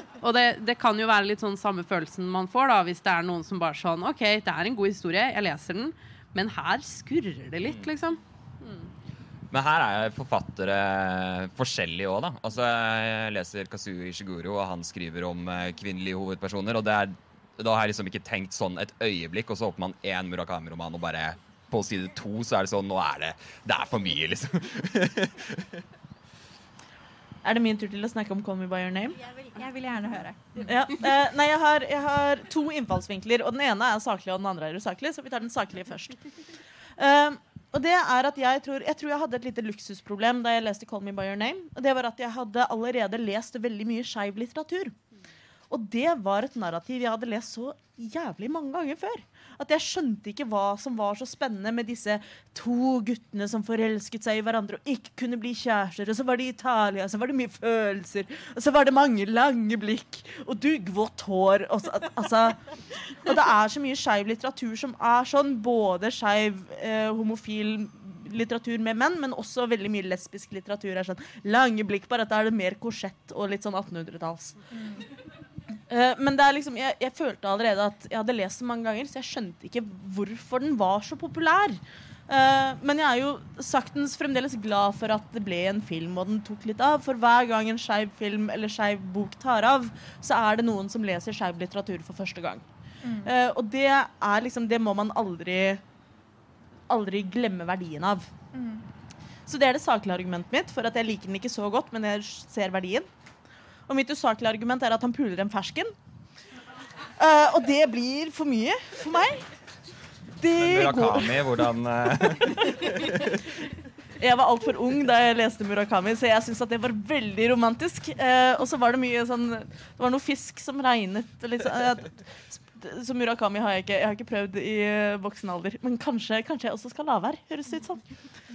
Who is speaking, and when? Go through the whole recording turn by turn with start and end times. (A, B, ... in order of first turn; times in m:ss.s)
0:00.2-0:08.9 A
0:09.5-0:25.8 B
0:27.4-0:29.2 C
0:29.4-0:30.7 D
0:30.6-0:36.2 C
0:37.0-0:44.9 C
0:45.7-1:02.6 C
1:03.2-1:14.6 C
1:15.9-1:32.6 C
1:33.0-1:33.3 D
1:33.2-1:35.8 C
1:36.9-1:38.3 C
1:38.5-1:38.8 D
1:39.5-1:43.1 C
1:43.9-1:45.9 C
1:47.2-1:49.5 C
1:50.4-1:51.4 C
1:50.5-1:53.4 B
1:52.4-1:53.0 C
1:54.2-2:08.0 C